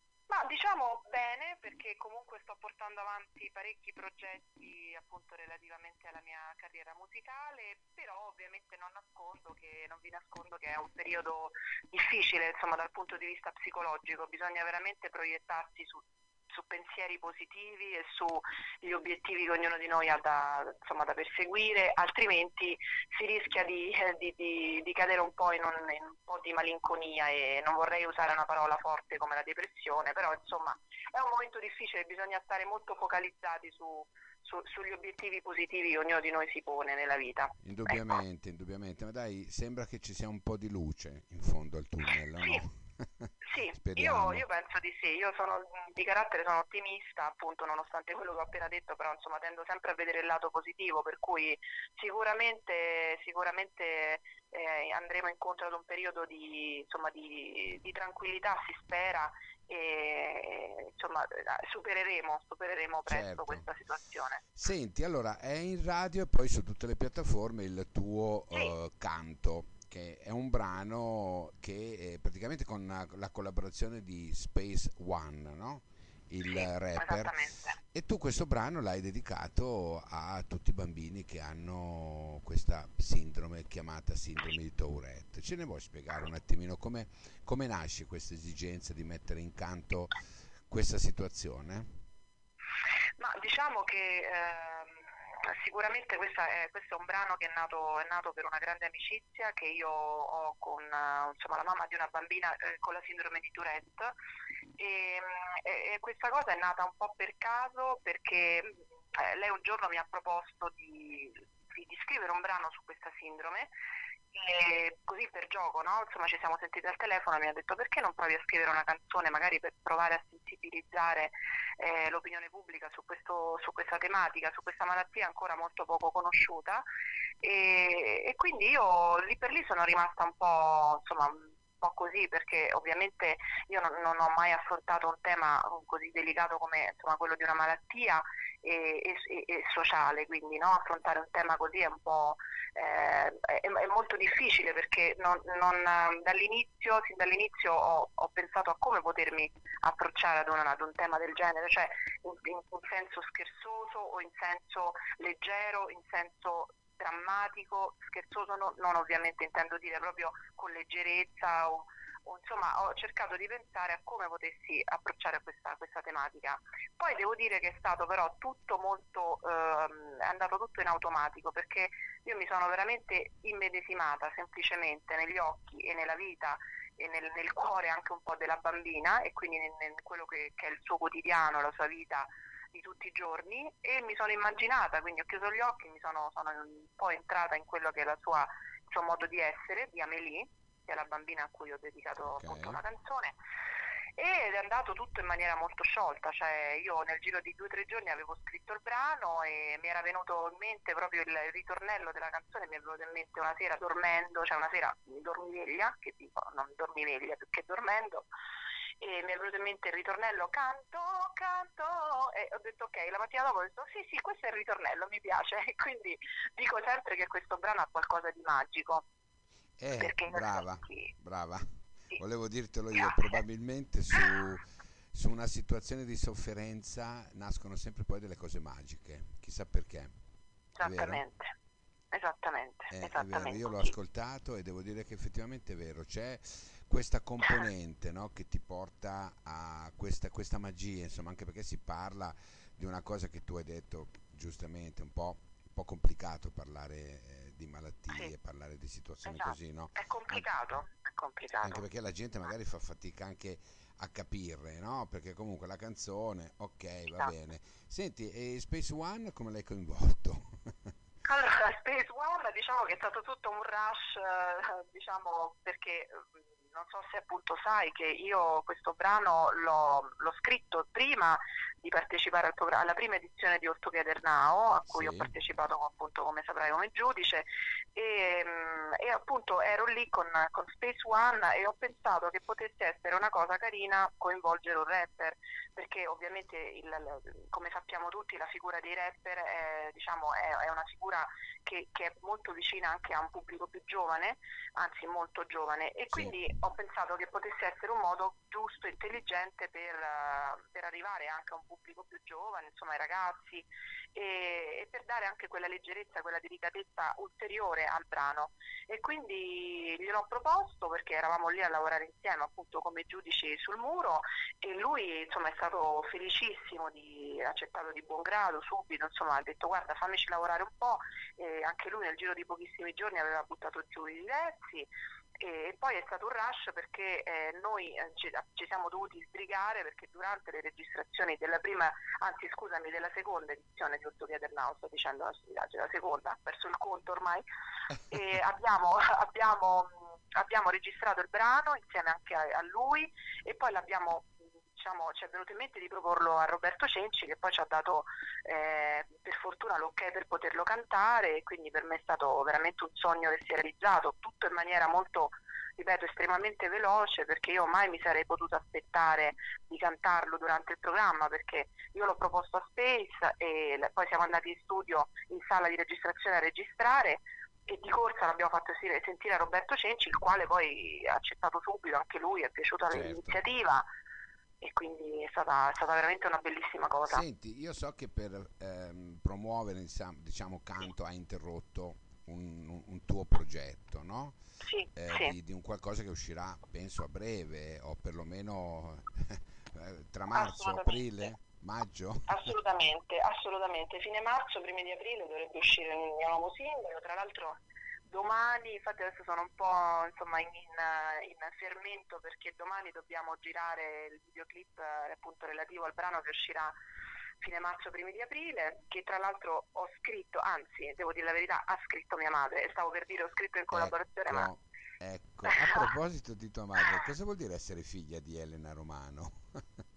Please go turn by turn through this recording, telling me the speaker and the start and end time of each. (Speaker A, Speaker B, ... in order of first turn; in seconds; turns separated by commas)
Speaker A: 0.3-38.2, Speaker B: 37.6-44.5, Speaker A: 43.5-64.4, Speaker B: 63.0-63.7, Speaker B: 64.5-90.2, Speaker A: 76.5-77.8, Speaker B: 90.7-92.0, Speaker A: 93.2-104.2, Speaker A: 104.8-113.7, Speaker A: 114.3-126.9, Speaker A: 127.4-193.4, Speaker B: 192.2-192.8, Speaker A: 194.2-208.3, Speaker A: 209.0-219.1, Speaker B: 219.8-230.1, Speaker A: 220.0-221.1, Speaker A: 222.9-223.4, Speaker A: 230.8-231.5, Speaker B: 230.8-231.2, Speaker A: 232.1-233.9, Speaker B: 232.9-250.5, Speaker A: 249.2-251.8, Speaker B: 251.6-260.9, Speaker A: 261.2-337.4, Speaker B: 274.9-275.3, Speaker A: 338.1-373.9, Speaker B: 372.9-373.4, Speaker A: 374.6-377.2, Speaker B: 377.1-384.4, Speaker A: 384.6-385.3, Speaker B: 384.9-392.5, Speaker A: 390.3-391.3, Speaker A: 392.3-406.7, Speaker A: 407.4-414.5, Speaker B: 413.7-419.6